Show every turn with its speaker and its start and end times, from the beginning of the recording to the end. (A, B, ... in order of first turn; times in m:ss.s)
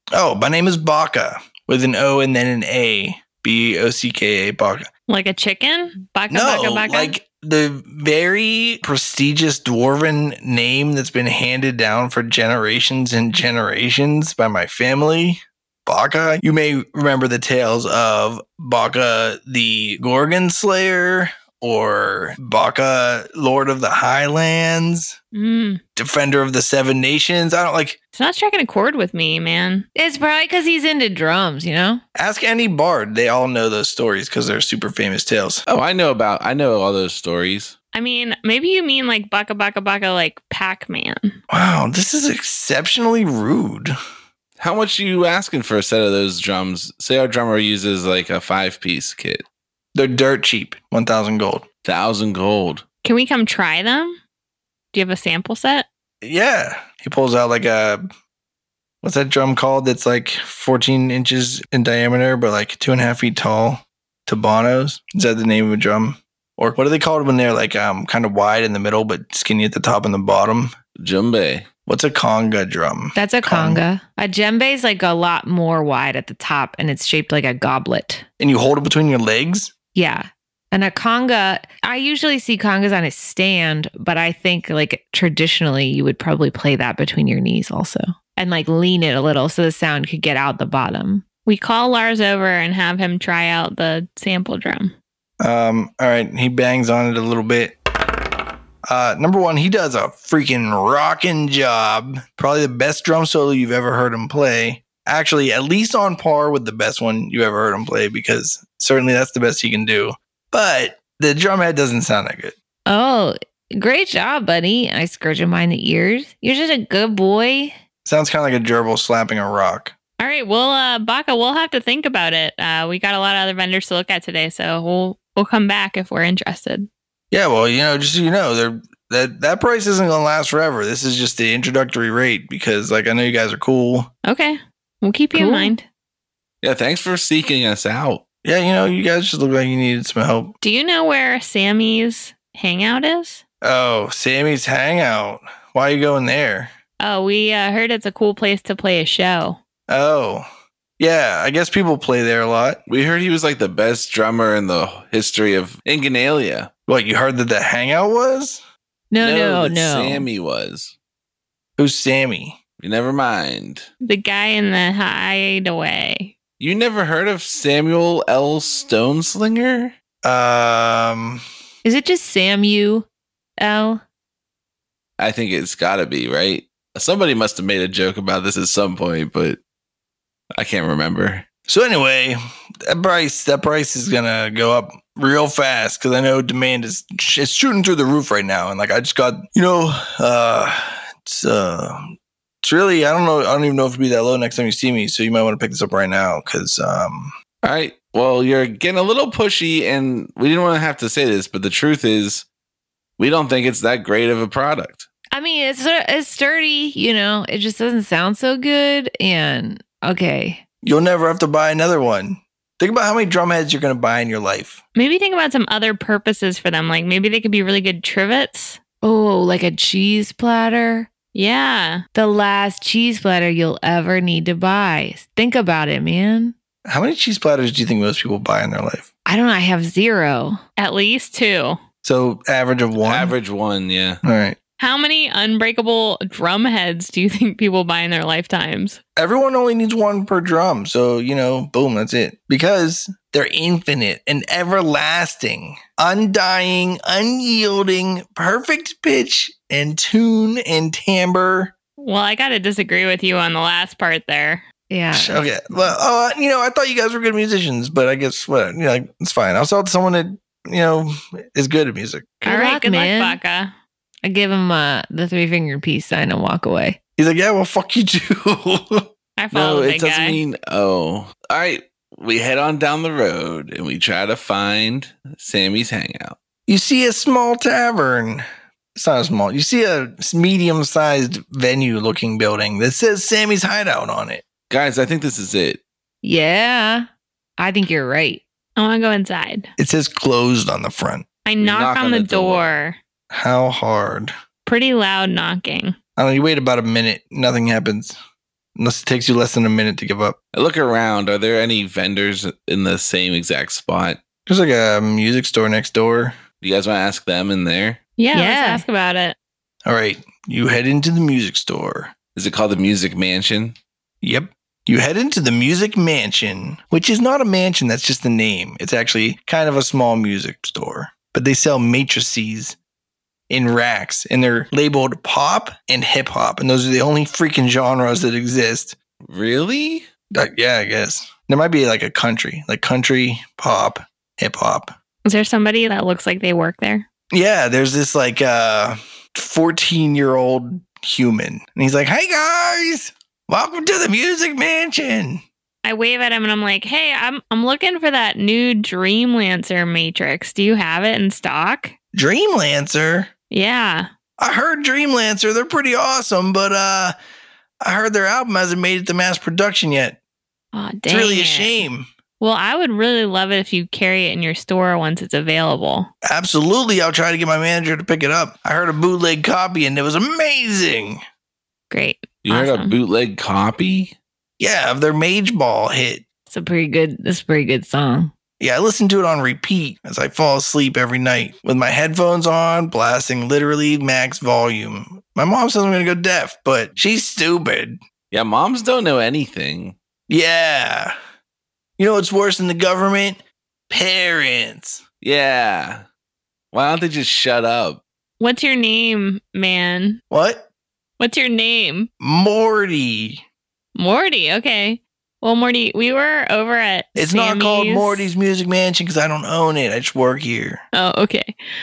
0:00.1-0:04.9 A
0:05.1-0:07.1 B
0:06.3-0:25.2 A
0:25.3-0:25.8 B
0:26.0-0:28.0 A
0:28.1-0:29.8 B
0:30.0-0:32.0 C
0:32.2-0:35.6 A
0:35.7-0:37.8 D
0:37.9-0:41.4 B
0:41.5-0:43.9 A
0:44.6-0:49.4 D
0:50.0-0:51.6 A
0:51.8-0:52.8 D
0:53.0-0:54.2 B
0:54.9-0:55.9 B
0:56.2-0:58.0 A
0:59.0-1:10.7 A
1:11.0-1:11.7 D
1:11.9-1:13.8 A
1:13.2-1:18.2 C
1:18.4-1:19.7 A
1:20.0-1:31.2 C
1:31.5-1:35.0 B
1:35.4-1:37.8 A
1:38.9-1:52.6 A
1:52.9-1:57.8 C
1:58.0-1:59.9 A
2:00.2-2:06.9 B
2:07.3-2:14.1 A
2:14.2-2:15.9 B
2:15.3-2:15.7 C
2:16.6-2:18.2 D
2:18.4-2:20.5 A
2:20.6-2:23.4 B
2:23.6-2:26.7 A
2:27.0-2:29.6 B
2:29.9-2:30.5 A
2:31.0-2:32.8 A
2:32.9-2:36.7 D
2:36.9-2:38.6 A
2:39.1-2:40.3 C
2:39.2-2:41.0 D
2:41.8-2:42.6 A
2:42.8-2:43.9 D
2:44.0-2:46.4 B
2:46.6-2:49.9 D
2:50.2-2:51.4 A
2:51.8-2:53.1 C
2:53.6-2:54.0 C
2:55.2-2:59.6 D
3:00.6-3:01.5 D
3:01.7-3:17.3 A
3:17.6-3:22.5 D
3:23.2-3:25.1 D
3:25.3-3:30.6 C
3:30.8-3:34.8 A
3:35.0-3:38.8 B
3:39.0-3:41.1 C
3:41.3-3:42.0 B
3:42.1-3:46.5 C
3:46.9-3:49.1 A
3:49.3-3:50.6 C
3:50.8-3:51.8 B
3:52.0-3:53.3 A
3:53.0-3:54.2 D
3:54.2-3:54.6 A
3:54.8-3:59.0 B
3:59.2-4:11.7 A
4:12.0-4:14.6 B
4:14.9-4:15.9 C
4:15.1-4:22.3 A
4:22.4-4:23.4 C
4:22.4-4:23.7 B
4:24.2-4:27.0 C
4:27.2-4:29.0 A
4:29.4-4:30.4 B
4:29.5-4:36.4 D
4:36.7-4:38.4 A
4:39.0-4:44.4 A
4:44.7-4:45.8 D
4:46.2-4:47.1 C
4:47.6-4:48.4 C
4:48.8-4:49.7 B
4:49.8-4:51.2 A
4:51.4-4:53.0 B
4:51.6-4:52.7 D
4:53.3-4:54.3 A
4:54.6-4:56.0 B
4:56.2-4:58.2 A
4:58.8-5:00.4 A
5:00.5-5:04.2 D
5:04.5-5:06.4 A
5:06.6-5:08.0 D
5:08.2-5:09.4 B
5:08.3-5:08.9 C
5:09.9-5:12.1 A
5:12.4-5:13.8 D
5:14.2-5:22.8 A
5:23.5-5:29.0 A
5:29.2-5:30.1 D
5:30.3-5:34.9 A
5:35.2-5:37.1 B
5:37.3-5:45.4 A
5:45.8-5:51.9 B
5:52.1-5:53.3 A
5:53.5-5:54.1 B
5:54.4-5:57.2 A
5:57.8-6:00.2 A
6:00.7-6:01.8 B
6:01.1-6:02.1 A
6:02.4-6:06.1 B
6:06.2-6:11.2 A
6:11.9-6:13.0 B
6:12.4-6:14.2 D
6:14.6-6:16.2 A
6:16.5-6:18.3 C
6:18.6-6:28.0 A
6:28.3-6:30.0 D
6:30.3-6:31.1 A
6:32.0-6:33.4 A
6:33.9-6:35.0 A
6:35.2-6:36.0 D
6:36.7-6:38.0 D
6:38.4-6:40.2 B
6:40.3-6:40.7 A
6:41.2-6:42.1 B
6:42.2-6:43.4 A
6:44.0-6:48.3 B
6:47.2-6:50.8 A
6:50.9-6:51.5 B